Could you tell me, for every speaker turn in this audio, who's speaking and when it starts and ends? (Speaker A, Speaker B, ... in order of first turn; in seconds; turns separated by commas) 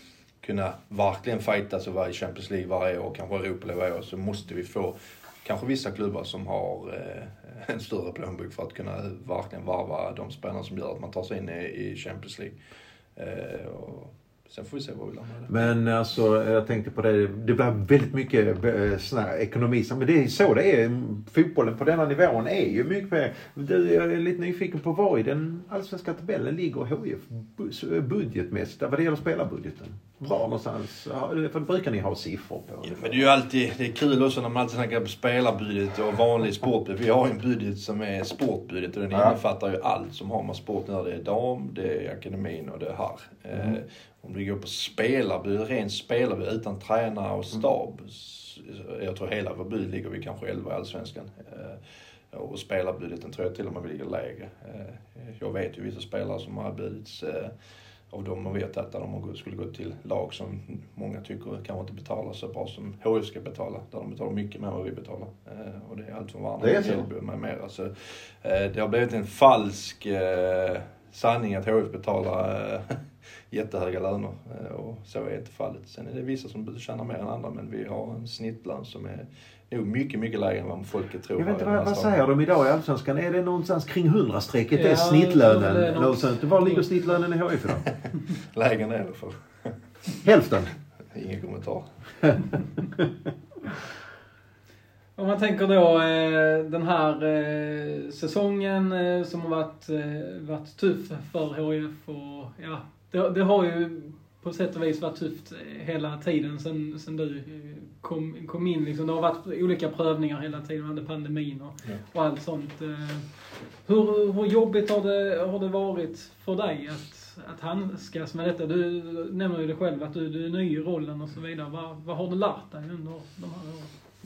Speaker A: 0.4-12.6, Speaker A: 13.2-15.5, Speaker B: 15.5-33.3, Speaker A: 32.9-51.8, Speaker B: 39.1-39.4, Speaker A: 52.3-57.5, Speaker A: 58.1-73.0, Speaker B: 66.6-67.0, Speaker A: 73.5-82.2, Speaker B: 81.4-87.8, Speaker C: 84.8-86.9, Speaker A: 87.9-89.8, Speaker B: 90.2-90.7, Speaker A: 91.1-91.9, Speaker C: 95.2-113.3, Speaker C: 113.8-123.9